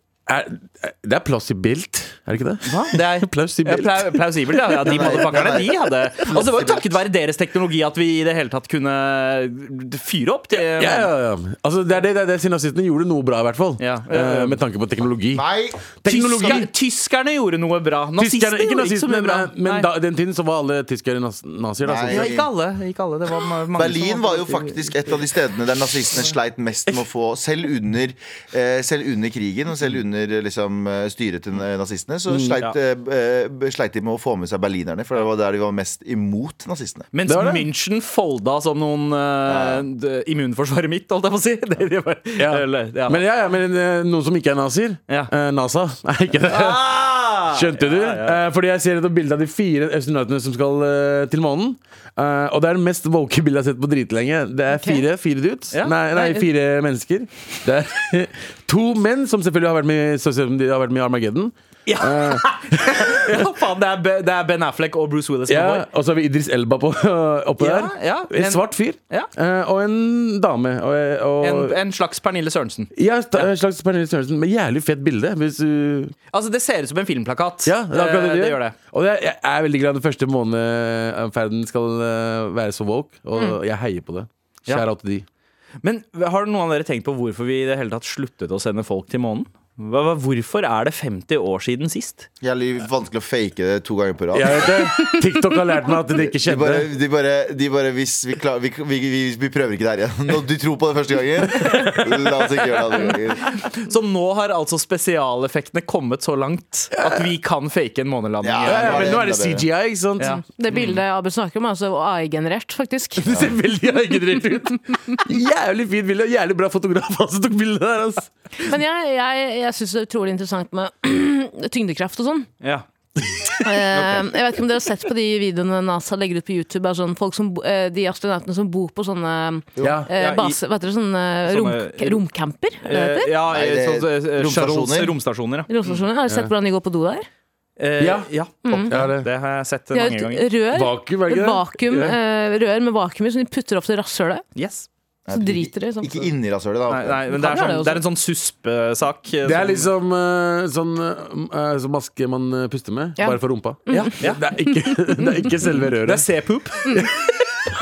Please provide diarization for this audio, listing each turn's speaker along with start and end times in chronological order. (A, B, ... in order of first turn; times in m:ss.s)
0:00.3-0:05.1 A
0:02.6-0:11.1 B
0:04.8-0:05.7 C
0:06.3-0:06.8 C
0:10.6-0:15.4 A
0:13.8-0:14.6 B
0:15.3-0:15.8 C
0:16.0-0:16.7 A
0:16.0-0:19.9 B
0:18.2-0:22.3 A
0:21.8-0:22.5 C
0:22.1-0:25.1 B
0:23.7-0:37.1 C
0:37.1-0:43.2 B
0:37.2-0:37.7 A
0:39.4-0:39.8 C
0:42.4-1:03.4 A
0:46.3-0:48.4 B
0:54.7-0:55.0 D
0:55.7-0:56.4 B
1:01.8-1:05.8 B
1:05.5-1:11.8 A
1:07.6-1:09.3 B
1:11.4-1:13.5 B
1:12.9-1:16.1 A
1:16.3-1:18.8 B
1:17.6-1:25.2 A
1:25.8-1:32.3 B
1:32.4-1:34.7 C
1:34.3-1:36.9 A
1:36.3-1:43.5 C
1:43.5-1:49.2 B
1:46.9-1:47.3 A
1:48.4-1:49.7 C
1:48.6-1:50.3 A
1:50.2-1:50.8 B
1:50.2-1:53.4 D
1:53.2-1:58.3 A
1:58.6-2:02.5 D
2:03.6-2:13.3 D
2:03.9-2:04.2 B
2:09.8-2:10.1 A
2:10.2-2:10.6 B
2:11.4-2:12.2 B
2:12.8-2:16.0 B
2:13.5-2:15.2 C
2:15.7-2:17.3 D
2:17.8-2:20.5 B
2:18.0-2:18.3 A
2:18.6-2:18.9 D
2:18.9-2:19.3 A
2:19.9-2:24.4 D
2:20.7-2:22.2 A
2:24.5-2:24.9 B
2:25.3-2:27.7 C
2:25.3-2:26.3 D
2:26.9-2:29.9 B
2:27.3-2:28.0 D
2:29.4-2:36.3 A
2:33.2-2:34.1 D
2:33.9-2:34.4 B
2:36.0-2:36.8 B